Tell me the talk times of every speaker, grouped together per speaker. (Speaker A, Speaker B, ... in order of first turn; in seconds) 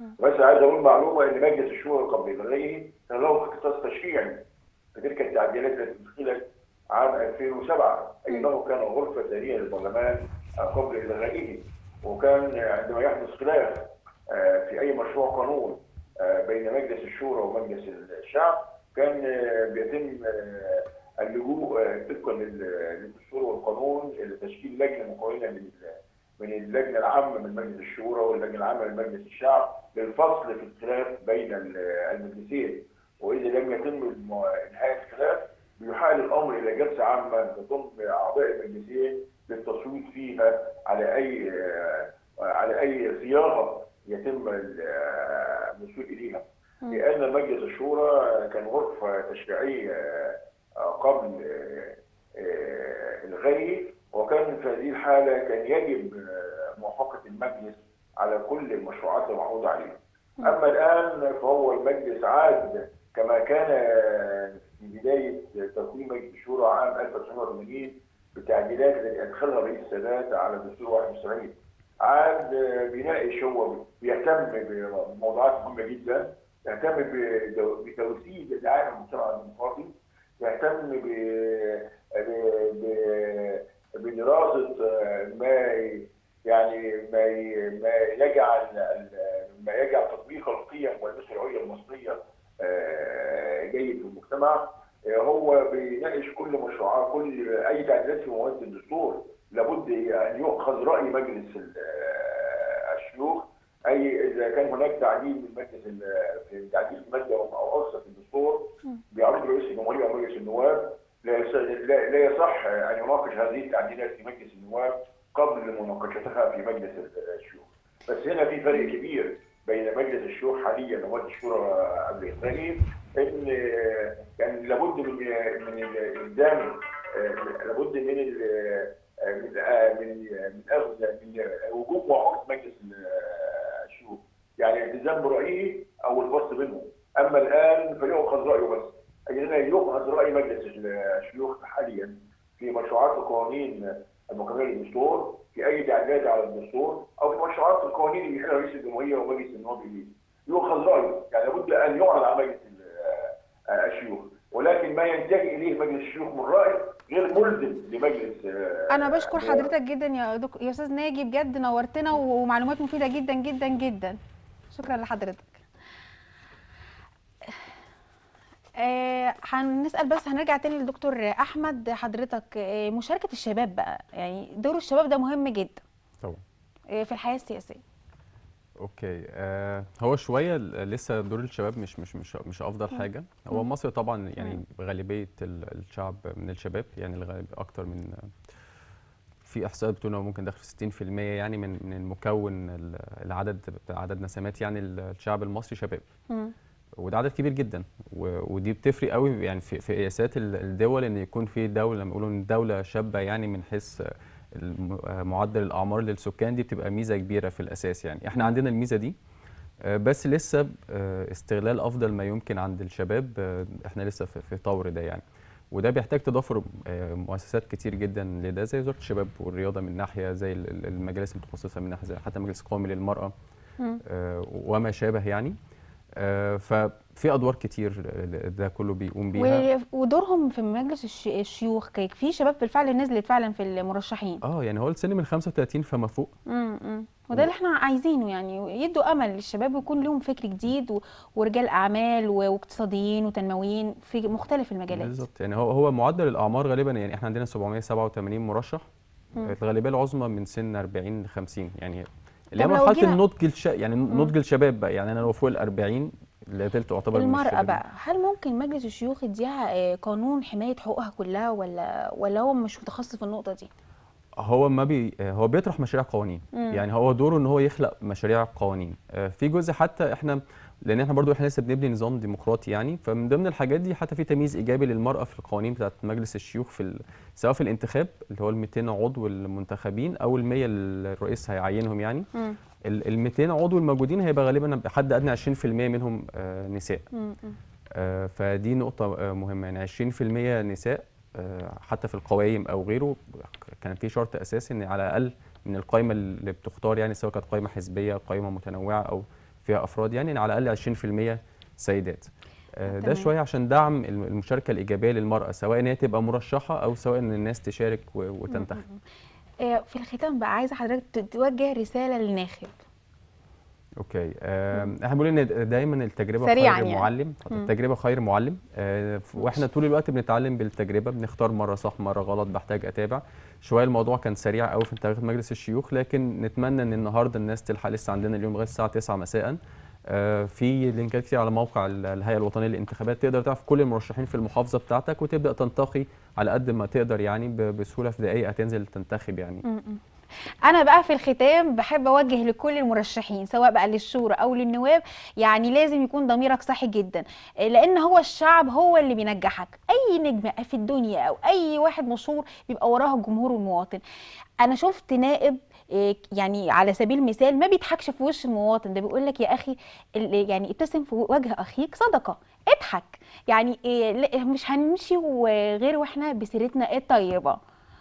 Speaker A: 0.2-159.7
Speaker B: 158.9-164.2, 164.7-165.6, 168.8-175.8, 176.9-177.8, 229.4-234.4, 236.5-245.2, 252.6-253.2, 257.1-263.7, 266.5-266.8, 287.1-287.6, 302.9-303.3, 308.5-309.0, 309.6-312.8, 316.4-317.7, 339.6-340.0, 340.6-354.0, 354.6-367.6
Speaker C: 178.8-188.2, 189.4-196.1, 197.0-209.2, 209.9-223.3, 224.1-225.6, 226.2-229.7, 234.4-236.3, 244.9-248.8, 249.4-257.8, 264.4-282.3, 282.9-287.1, 288.0-308.8, 314.0-329.6, 330.1-339.6